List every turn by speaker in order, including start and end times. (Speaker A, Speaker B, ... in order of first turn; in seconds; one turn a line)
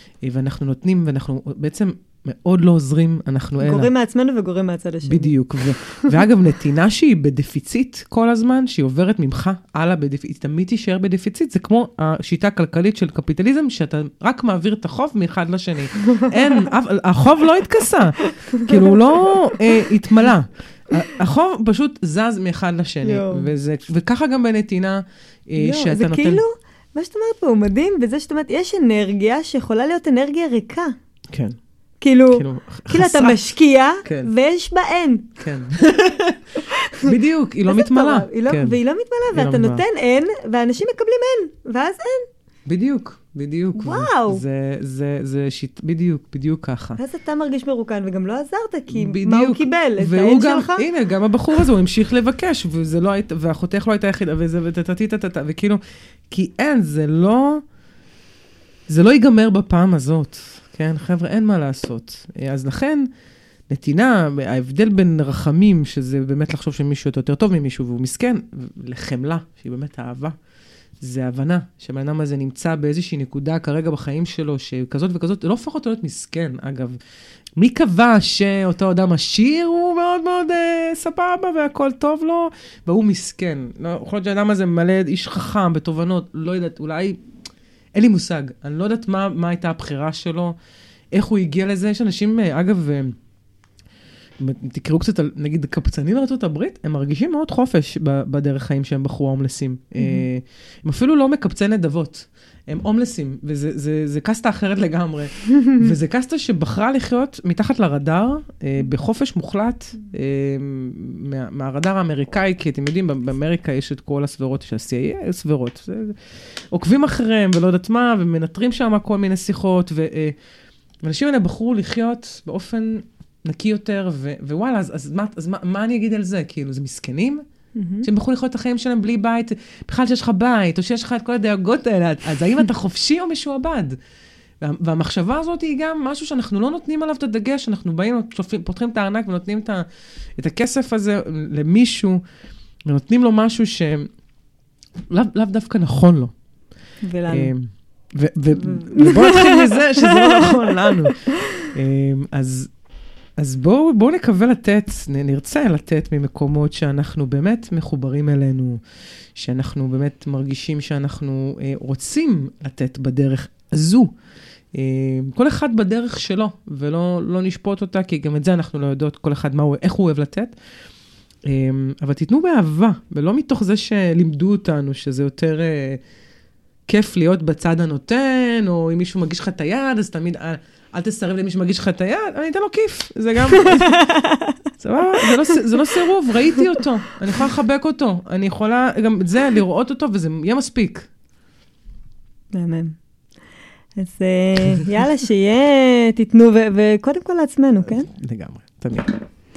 Speaker A: 0.2-3.9
Speaker B: 3.6-6.2
Speaker A: 5.0-26.4
Speaker B: 16.1-16.3
Speaker B: 18.2-19.8
Speaker B: 23.0-23.5
Speaker B: 25.6-30.9
Speaker A: 31.3-31.6
Speaker B: 32.0-35.4
Speaker A: 32.3-33.4
Speaker A: 34.0-34.3
Speaker A: 35.4-38.8
Speaker B: 36.6-37.1
Speaker B: 37.7-42.3
Speaker A: 39.3-39.8
Speaker A: 42.7-47.0
Speaker B: 43.7-44.4
Speaker B: 47.0-50.9
Speaker A: 48.9-57.6
Speaker A: 58.9-63.1
Speaker A: 63.7-70.3
Speaker A: 71.0-77.0
Speaker A: 77.6-87.2
Speaker A: 87.9-90.5
Speaker A: 91.1-93.1
Speaker A: 94.4-120.3
Speaker B: 100.0-100.3
Speaker A: 121.0-127.4
Speaker B: 127.8-128.1
Speaker A: 128.0-134.0
Speaker A: 134.6-139.8
Speaker A: 140.4-142.2
Speaker A: 142.9-144.1
Speaker A: 145.1-146.3
Speaker B: 147.0-147.5
Speaker A: 147.3-152.7
Speaker B: 148.6-151.1
Speaker A: 153.4-158.8
Speaker A: 159.3-164.1
Speaker A: 164.7-170.5
Speaker A: 171.4-176.0
Speaker A: 176.9-184.0
Speaker B: 183.5-184.6
Speaker A: 184.8-191.1
Speaker B: 185.2-185.8
Speaker B: 192.5-192.9
Speaker B: 194.0-198.1
Speaker A: 197.9-199.1